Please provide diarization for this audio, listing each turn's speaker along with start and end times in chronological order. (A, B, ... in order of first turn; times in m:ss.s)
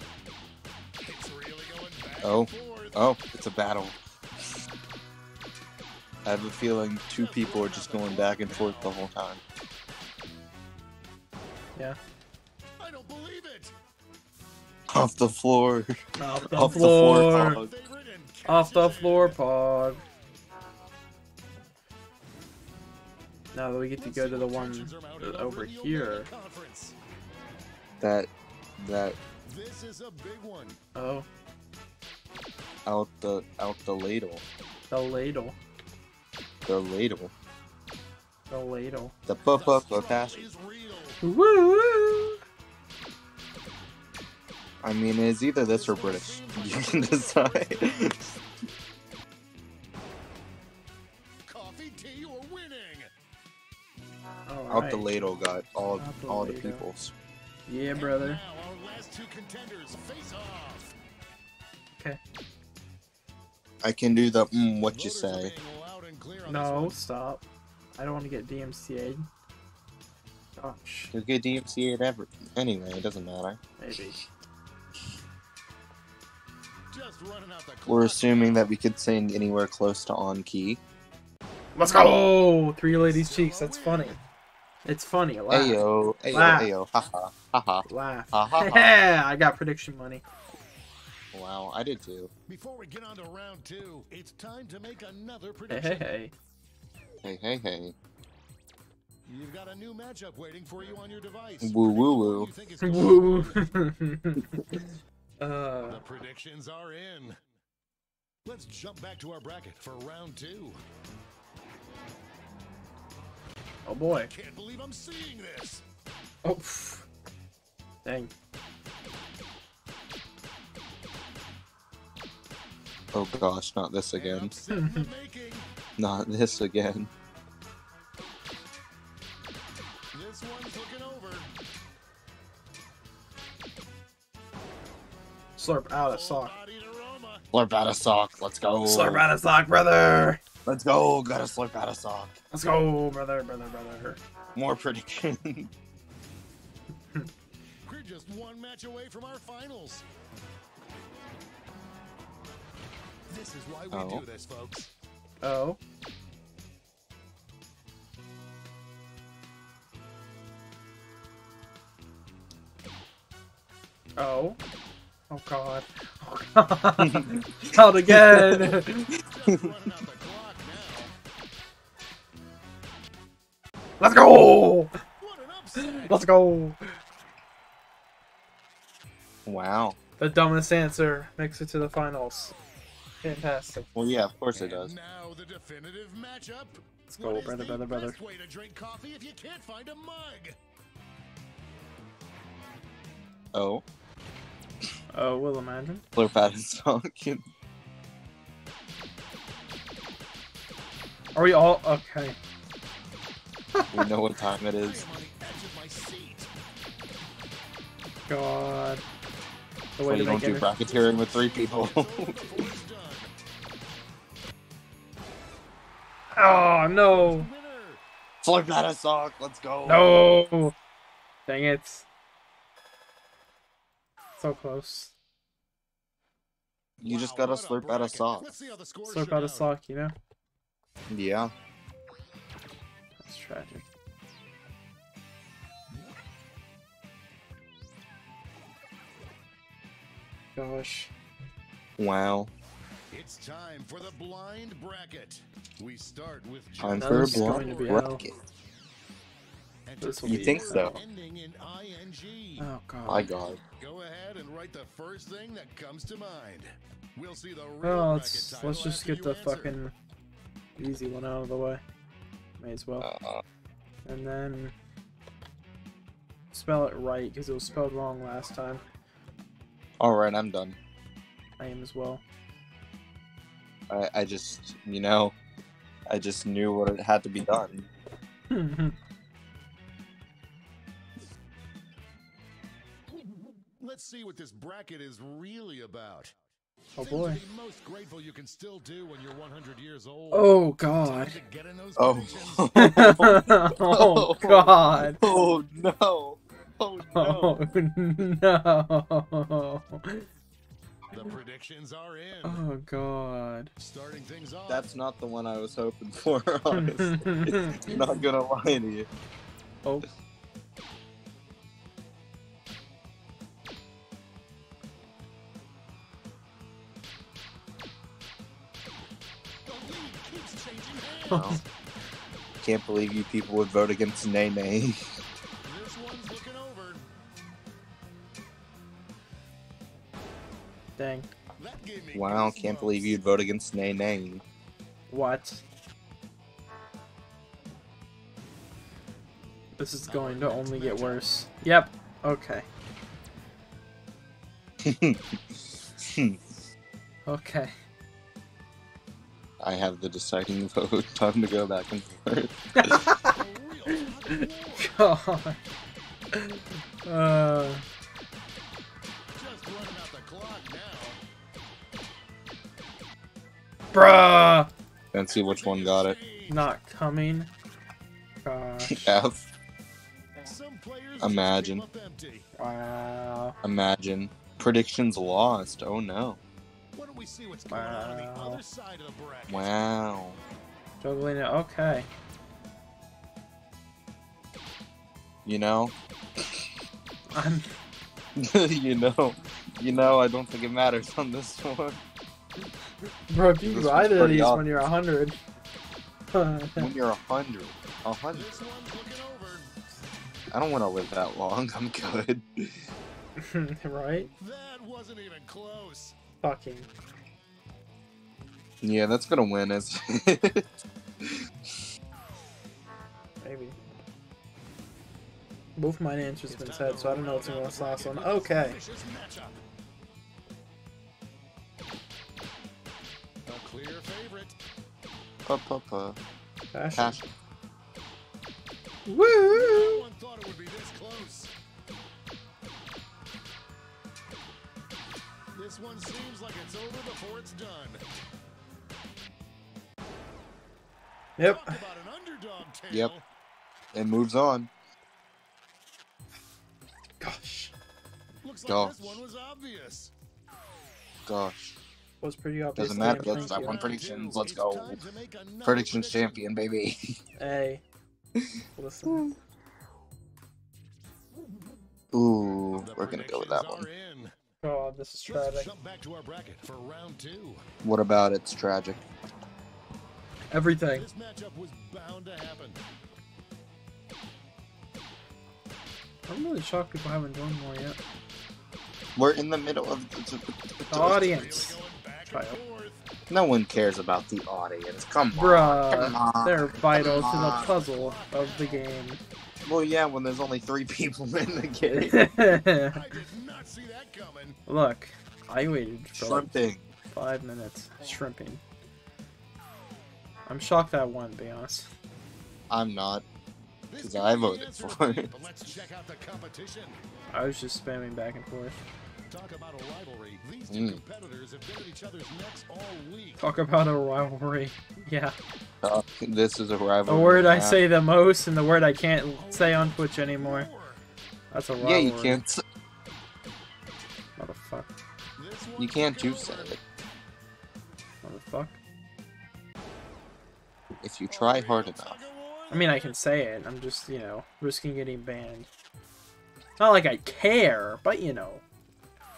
0:01.0-0:03.0 A
0:02.2-0:04.0 B
0:06.2-0:09.4 B
0:07.1-0:08.9 A
0:12.8-0:13.7 A
0:14.9-0:17.7 B
0:16.2-0:17.6 C
0:16.6-0:19.4 A
0:18.4-0:20.0 C
0:23.5-0:26.3 C
0:24.0-0:26.9 A
0:28.0-0:29.2 B
0:29.4-0:30.8 A
0:30.9-0:31.2 C
0:32.9-0:34.4 B
0:34.9-0:35.6 C
0:36.6-0:37.3 B
0:38.5-0:39.1 C
0:39.2-0:40.5 B
0:39.4-0:41.2 A
0:41.2-0:42.4 C
0:44.8-0:48.2 B
0:45.7-0:48.4 A
0:51.5-0:53.1 A
0:54.5-0:55.1 C
0:54.7-0:57.1 B
0:56.0-0:56.8 C
0:57.7-0:58.4 C
0:57.9-1:00.9 A
1:03.8-1:05.5 B
1:04.9-1:07.0 A
1:06.4-1:07.4 C
1:08.0-1:09.3 C
1:10.6-1:11.1 C
1:11.1-1:14.2 B
1:13.8-1:14.2 C
1:16.9-1:18.6 A
1:17.9-1:20.8 B
1:21.8-1:24.2 C
1:22.9-1:24.2 A
1:24.9-1:26.7 C
1:25.5-1:29.0 B
1:27.9-1:30.2 C
1:31.3-1:32.3 B
1:32.5-1:36.1 A
1:35.7-1:36.3 C
1:37.2-1:38.0 B
1:39.3-1:43.7 A
1:41.6-1:42.5 B
1:42.8-1:46.0 C
1:45.9-1:47.4 A
1:48.4-1:50.8 A
1:53.9-1:54.3 C
1:54.3-1:55.8 A
1:56.4-1:57.1 C
1:58.0-1:58.3 C
2:03.1-2:04.5 B
2:04.1-2:05.6 A
2:04.7-2:05.1 C
2:06.0-2:07.1 B
2:10.1-2:11.5 A
2:15.6-2:16.6 C
2:16.1-2:17.4 A
2:17.5-2:19.2 B
2:18.9-2:20.4 C
2:20.6-2:22.4 B
2:22.5-2:24.2 C
2:24.5-2:25.7 B
2:27.8-2:30.0 A
2:33.3-2:34.9 A
2:33.9-2:34.2 B
2:35.4-2:35.8 C
2:44.2-2:44.6 C
2:45.3-2:49.1 C
2:47.0-2:49.0 B
2:49.2-2:51.1 A
2:54.0-2:54.9 C
2:55.2-2:56.2 A
2:55.8-2:56.8 C
2:59.4-3:00.0 B
3:00.2-3:02.5 C
3:03.2-3:03.9 C
3:03.9-3:04.9 B
3:04.5-3:10.6 A
3:07.1-3:08.2 C
3:13.5-3:13.8 B
3:15.1-3:16.0 C
3:16.1-3:17.4 B
3:21.4-3:22.4 C
3:23.7-3:24.1 C
3:23.9-3:25.1 B
3:24.8-3:26.5 A
3:28.3-3:29.0 C
3:30.0-3:30.7 C
3:30.0-3:32.4 B
3:30.8-3:33.3 A
3:36.4-3:37.5 C
3:36.4-3:38.0 A
3:38.4-3:40.2 B
3:39.9-3:40.7 C
3:41.5-3:42.1 C
3:44.4-3:45.1 C
3:47.0-3:48.5 B
3:47.0-3:49.7 A
3:49.1-3:50.1 C
3:51.1-3:51.5 B
3:53.2-3:53.8 C
4:00.5-4:01.1 C
4:02.0-4:02.5 B
4:03.1-4:08.2 A
4:06.8-4:08.4 B
4:07.0-4:08.2 C
4:09.9-4:12.7 A
4:10.0-4:11.0 C
4:10.2-4:10.9 B
4:12.6-4:13.3 C
4:13.1-4:13.6 B
4:13.8-4:19.7 A
4:17.8-4:19.9 C
4:20.8-4:21.8 C
4:22.6-4:23.1 C
4:23.0-4:23.4 B
4:24.1-4:24.7 C
4:26.5-4:28.8 C
4:30.0-4:30.8 B
4:31.6-4:32.2 C
4:33.9-4:35.4 B
4:36.1-4:37.9 B
4:38.5-4:39.0 C
4:43.8-4:46.4 A
4:47.0-4:47.4 C
4:47.0-4:52.7 A
4:50.3-4:51.4 C
4:52.0-4:57.6 B
4:52.7-4:55.2 C
4:57.1-5:00.2 C
5:01.1-5:02.6 A
5:02.4-5:03.7 C
5:03.8-5:04.9 A
5:04.7-5:09.1 B
5:06.7-5:08.1 C
5:19.6-5:21.6 A
5:21.3-5:21.6 B
5:21.3-5:21.6 C
5:22.6-5:25.2 B
5:25.6-5:27.1 A
5:31.0-5:31.3 C
5:31.6-5:33.2 A
5:32.1-5:34.4 B
5:35.1-5:35.6 C
5:39.8-5:42.6 C
5:40.1-5:41.2 A
5:44.8-5:46.4 B
5:47.3-5:47.8 C
5:49.6-5:53.0 B
5:52.8-5:53.4 C
5:53.2-5:55.0 A
5:53.9-5:55.6 C
5:56.3-5:57.8 C
5:59.4-6:01.2 A
6:03.9-6:04.7 C
6:05.1-6:06.2 B
6:05.3-6:06.7 A
6:06.5-6:07.5 C
6:08.4-6:09.2 C
6:08.8-6:09.5 B
6:10.4-6:12.5 A
6:11.2-6:11.8 B
6:12.6-6:13.6 C
6:13.6-6:16.4 B
6:16.9-6:19.7 A
6:17.7-6:18.6 C
6:19.5-6:20.4 B
6:21.0-6:22.1 C
6:25.4-6:26.7 B
6:27.3-6:27.7 C
6:28.4-6:32.0 B
6:33.3-6:35.4 C
6:33.6-6:34.7 B
6:36.3-6:36.9 C
6:36.8-6:38.6 B
6:38.3-6:39.7 A
6:40.5-6:42.9 B
6:43.4-6:44.3 C
6:44.4-6:46.1 A
6:46.4-6:46.9 C
6:48.8-6:50.7 B
6:51.2-6:51.8 B
6:53.4-6:53.8 C
6:55.8-6:58.8 C
6:56.5-6:59.5 A
7:03.5-7:04.5 A
7:05.5-7:06.2 B
7:06.7-7:07.2 C
7:06.9-7:07.3 B
7:09.1-7:10.0 C
7:09.5-7:11.5 A
7:15.5-7:18.0 A
7:21.4-7:21.8 C
7:21.4-7:23.2 A
7:23.9-7:24.7 B
7:27.2-7:27.7 C
7:28.4-7:30.1 A
7:28.7-7:29.2 B
7:31.2-7:31.8 B
7:32.2-7:33.8 C
7:32.8-7:35.0 B
7:33.0-7:36.4 A
7:35.6-7:37.2 B
7:37.4-7:37.8 C
7:38.4-7:39.3 B
7:38.8-7:39.3 C
7:42.1-7:43.9 B
7:42.8-7:44.4 A
7:44.6-7:45.7 C
7:45.3-7:47.6 A
7:47.8-7:49.0 B
7:50.5-7:51.1 C
7:50.9-7:52.8 A
7:56.3-7:58.0 C
7:59.2-8:01.5 B
8:00.9-8:01.8 C
8:00.9-8:03.0 A
8:02.3-8:02.6 C
8:03.3-8:07.7 B
8:05.4-8:09.2 C
8:07.0-8:08.9 A
8:09.6-8:12.3 B
8:11.9-8:13.1 C
8:12.9-8:14.6 A
8:14.7-8:16.5 C
8:16.1-8:16.9 B
8:17.1-8:18.6 C
8:20.5-8:21.9 C
8:22.7-8:23.2 B
8:23.9-8:27.0 A
8:24.0-8:25.3 B
8:27.3-8:28.8 C
8:29.3-8:33.4 A
8:30.7-8:31.0 B
8:33.4-8:35.4 C
8:35.8-8:37.8 B
8:37.1-8:40.7 C
8:39.4-8:41.0 A
8:41.5-8:42.4 C
8:41.8-8:42.6 B
8:44.4-8:44.9 C
8:45.4-8:46.8 A
8:45.8-8:46.8 B
8:48.2-8:48.8 C
8:51.0-8:52.2 B
8:51.3-8:53.2 A
8:52.7-8:55.7 C
8:56.8-8:58.6 C